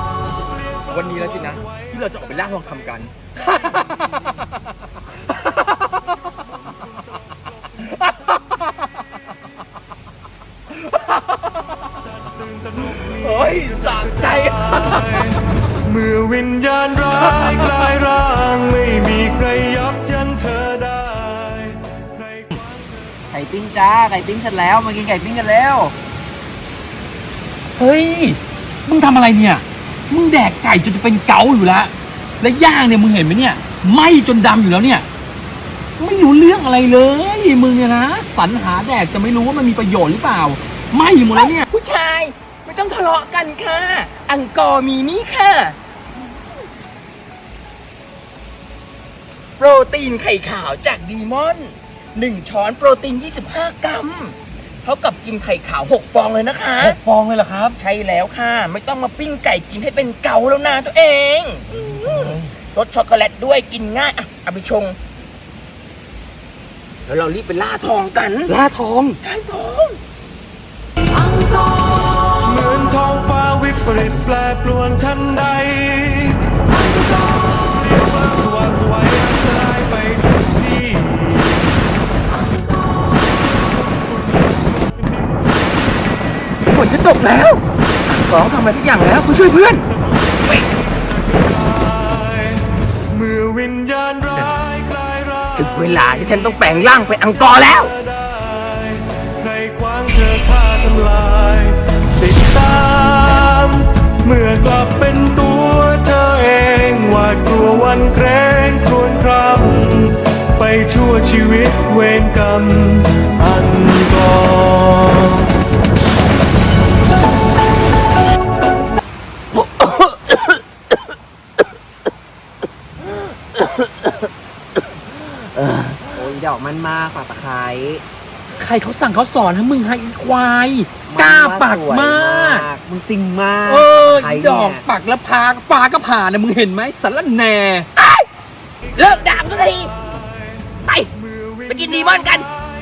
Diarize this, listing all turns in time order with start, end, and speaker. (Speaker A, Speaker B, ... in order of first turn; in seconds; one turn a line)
Speaker A: 0.9-4.2
Speaker A: 7.9-8.4
Speaker A: 12.8-15.3
Speaker B: 15.8-22.4
Speaker A: 17.2-17.9
Speaker C: 23.3-25.9
Speaker A: 27.8-35.1
Speaker A: 36.0-41.7
Speaker D: 41.3-45.8
Speaker D: 49.6-57.0
Speaker A: 56.8-57.8
Speaker D: 57.7-65.0
Speaker A: 61.7-62.5
Speaker D: 67.1-68.5
Speaker A: 68.5-69.2
Speaker D: 69.2-70.0
Speaker B: 72.3-76.5
Speaker B: 77.7-81.7
Speaker D: 86.6-89.9
Speaker D: 90.4-90.7
Speaker B: 91.8-92.5
Speaker B: 93.1-95.5
Speaker D: 95.5-97.9
Speaker B: 98.5-115.5
Speaker A: 125.7-126.0
Speaker C: 126.1-128.0
Speaker A: 128.5-132.7
Speaker C: 131.1-134.8
Speaker A: 133.7-137.9
Speaker D: 138.0-138.3
Speaker D: 138.9-139.9
Speaker D: 140.8-141.1
Speaker D: 141.7-142.5